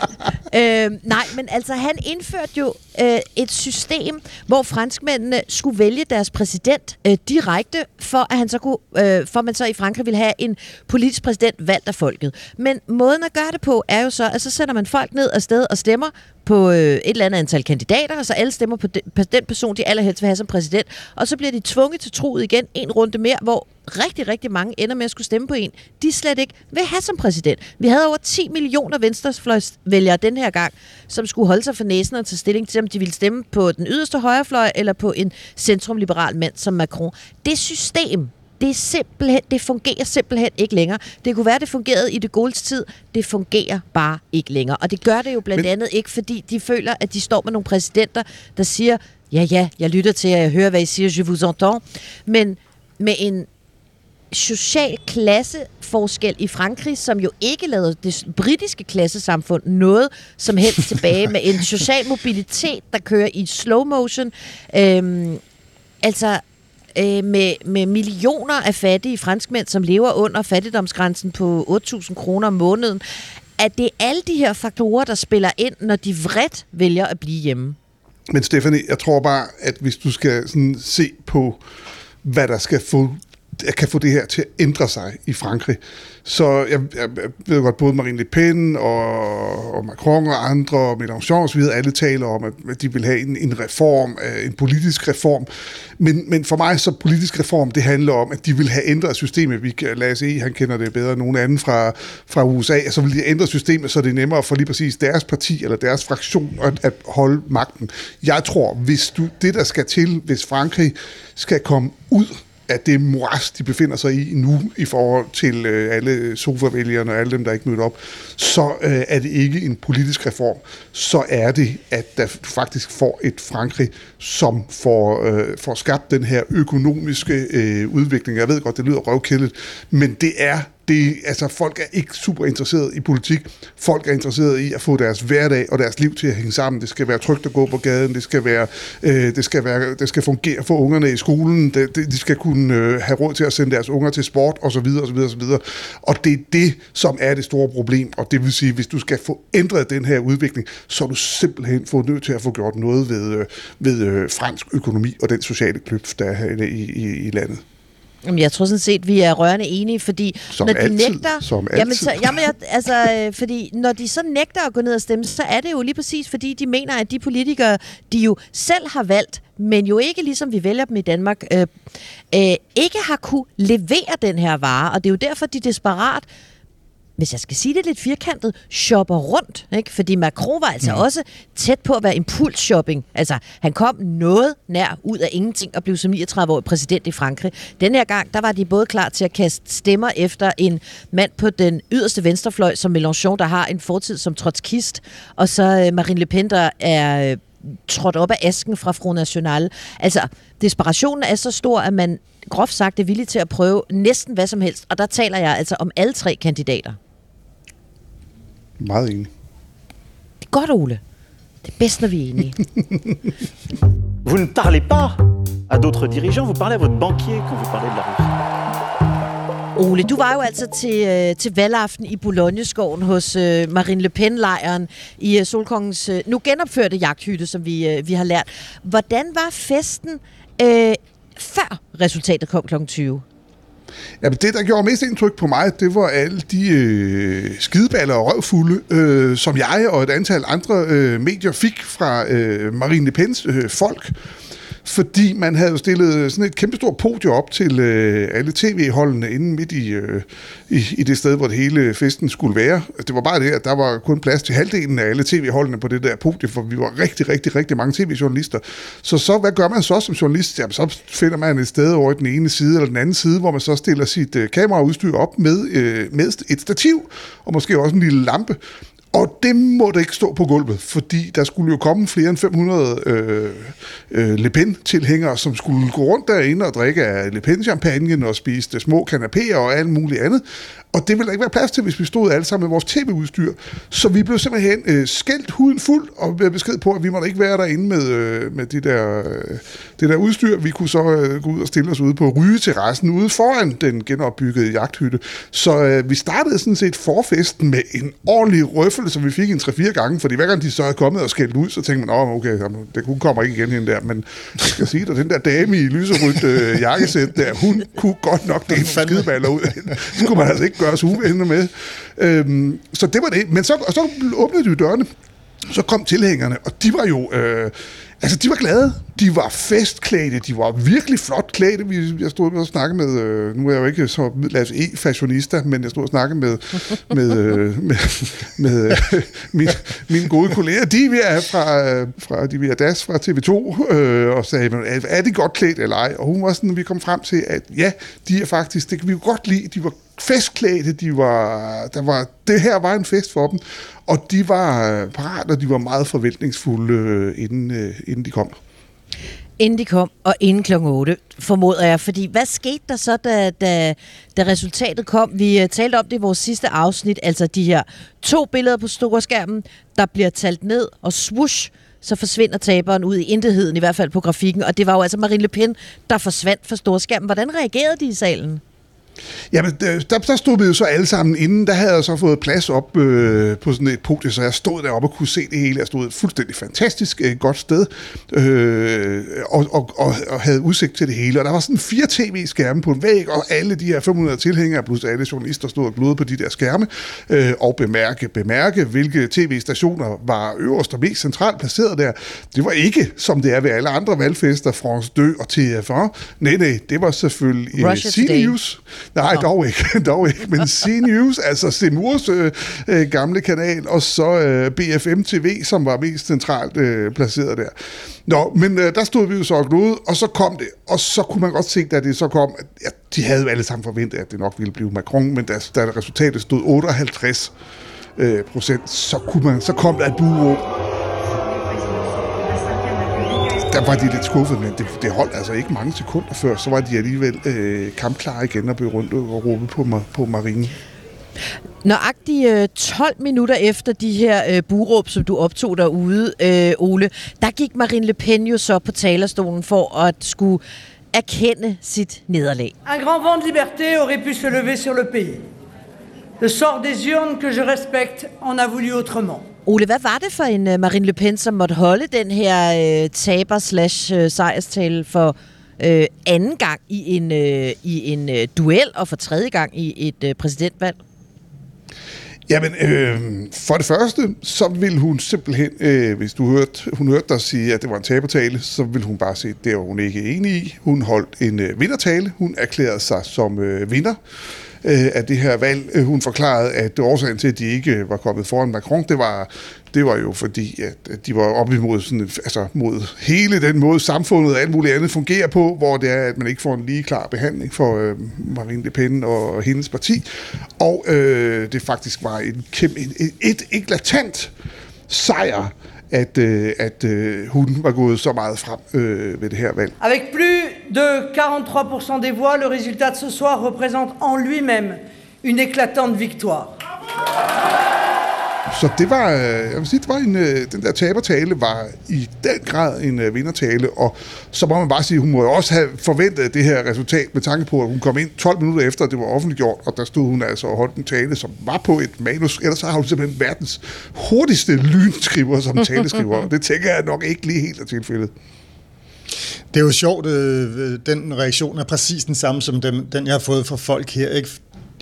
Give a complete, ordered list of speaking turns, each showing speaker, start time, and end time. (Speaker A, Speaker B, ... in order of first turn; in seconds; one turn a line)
Speaker A: 0.5-53.5
Speaker A: 54.3-65.4
Speaker A: 66.0-66.4
Speaker A: 66.9-73.0
Speaker A: 73.6-77.8
Speaker B: 78.3-81.6
Speaker B: 82.2-157.6
Speaker A: 158.2-171.7
Speaker B: 160.5-162.4
Speaker A: 172.3-176.3
Speaker A: 177.2-207.0
Speaker B: 208.8-209.3
Speaker A: 210.4-211.0
Speaker A: 211.6-212.6
Speaker C: 214.2-218.3
Speaker A: 219.8-233.2
Speaker B: 234.2-244.1
Speaker B: 244.8-268.6
Speaker B: 269.1-315.1
Speaker D: 308.7-310.2
Speaker B: 315.6-348.6
Speaker A: 349.6-368.6
Speaker B: 369.5-407.7
Speaker A: 397.8-398.5
Speaker B: 408.2-417.5
Speaker B: 418.2-420.6
Speaker B: 423.5-430.7
Speaker A: 431.8-440.6
Speaker A: 441.1-442.7
Speaker E: 442.9-445.4
Speaker E: 446.4-449.4
Speaker A: 449.6-461.0
Speaker B: 462.5-474.2
Speaker B: 474.8-494.5
Speaker B: 495.1-499.9
Speaker E: 500.0-506.7
Speaker B: 508.7-528.3
Speaker D: 529.7-534.6